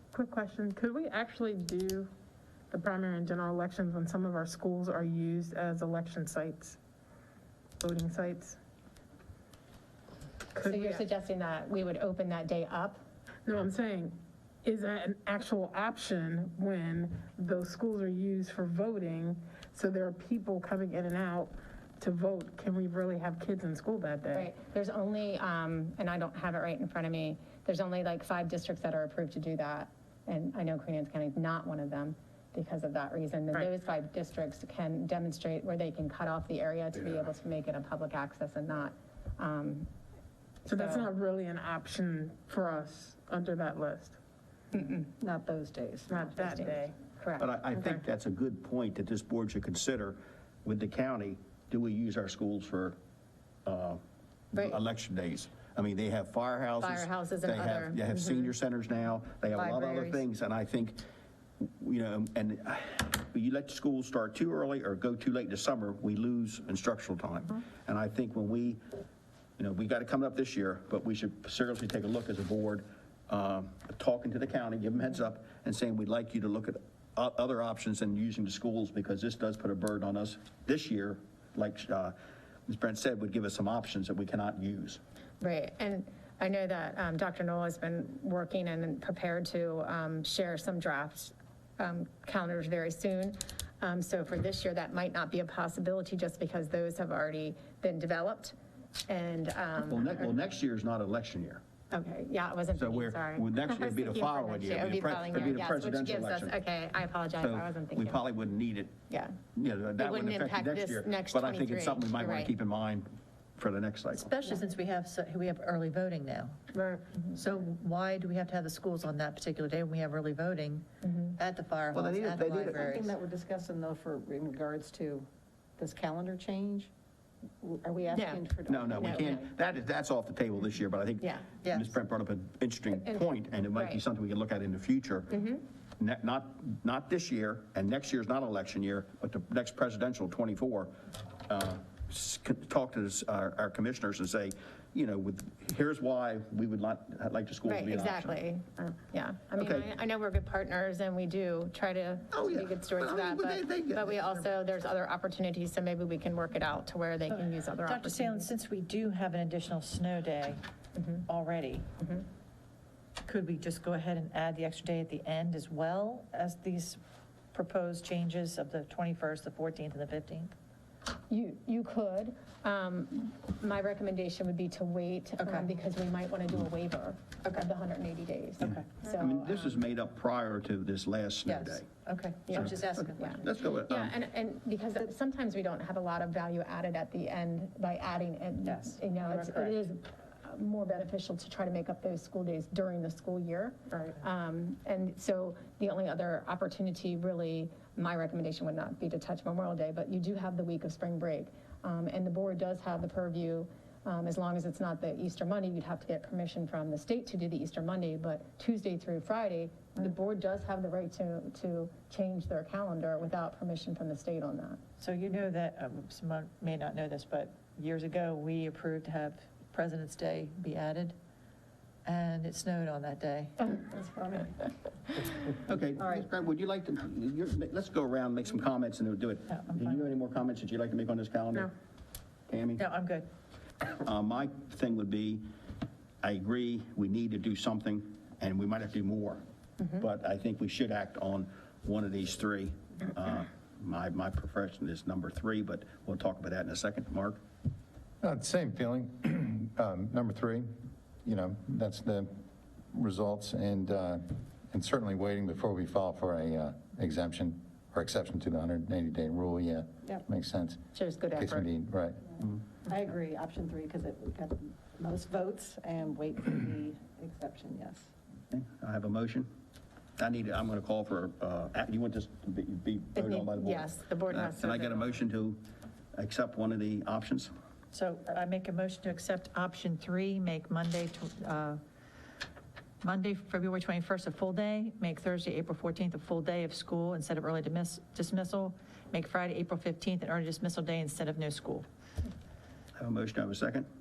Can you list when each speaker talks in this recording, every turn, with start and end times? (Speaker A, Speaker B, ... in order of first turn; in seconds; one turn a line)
Speaker A: 0.1-2.1
Speaker A: 2.7-6.8
Speaker A: 7.8-8.6
Speaker A: 10.5-11.0
Speaker B: 10.6-13.0
Speaker A: 13.4-24.5
Speaker B: 24.3-39.9
Speaker A: 40.6-44.2
Speaker B: 40.6-41.1
Speaker C: 45.2-46.6
Speaker A: 46.1-46.9
Speaker B: 47.2-47.5
Speaker D: 47.4-53.0
Speaker D: 53.6-54.0
Speaker B: 54.5-54.8
Speaker D: 54.5-61.0
Speaker B: 56.8-58.5
Speaker D: 61.6-68.8
Speaker D: 69.6-82.1
Speaker D: 82.7-85.0
Speaker B: 85.4-98.5
Speaker B: 99.1-100.3
Speaker D: 99.9-101.6
Speaker B: 101.9-108.2
Speaker D: 102.7-106.5
Speaker D: 107.4-108.9
Speaker B: 109.1-109.4
Speaker D: 109.5-114.3
Speaker B: 110.0-112.5
Speaker E: 114.2-116.6
Speaker A: 116.7-117.0
Speaker E: 117.3-123.1
Speaker D: 121.9-122.8
Speaker C: 122.1-126.9
Speaker C: 127.6-129.4
Speaker B: 128.1-129.4
Speaker D: 128.7-135.5
Speaker E: 131.6-131.9
Speaker B: 133.0-134.0
Speaker B: 135.3-135.6
Speaker D: 136.0-140.9
Speaker D: 141.5-148.3
Speaker B: 147.6-158.5
Speaker D: 149.6-149.9
Speaker D: 152.3-154.4
Speaker E: 157.8-160.6
Speaker E: 161.2-161.9
Speaker E: 163.2-167.0
Speaker E: 167.5-170.5
Speaker B: 171.3-179.8
Speaker D: 178.6-181.8
Speaker E: 181.4-183.4
Speaker B: 182.5-214.8
Speaker D: 183.4-184.1
Speaker C: 189.4-189.7
Speaker E: 215.0-221.2
Speaker E: 222.0-223.6
Speaker C: 223.6-224.7
Speaker D: 225.7-231.7
Speaker E: 229.6-229.9
Speaker D: 232.5-232.8
Speaker E: 232.8-233.3
Speaker D: 234.0-235.4
Speaker D: 236.2-247.4
Speaker F: 248.2-250.7
Speaker F: 251.2-252.3
Speaker F: 252.9-260.8
Speaker B: 260.9-261.6
Speaker F: 261.4-262.2
Speaker C: 262.9-268.0
Speaker D: 268.5-269.5
Speaker D: 270.2-275.6
Speaker B: 273.1-275.1
Speaker D: 276.1-277.5
Speaker E: 277.9-281.8
Speaker E: 283.0-291.9
Speaker D: 292.9-293.9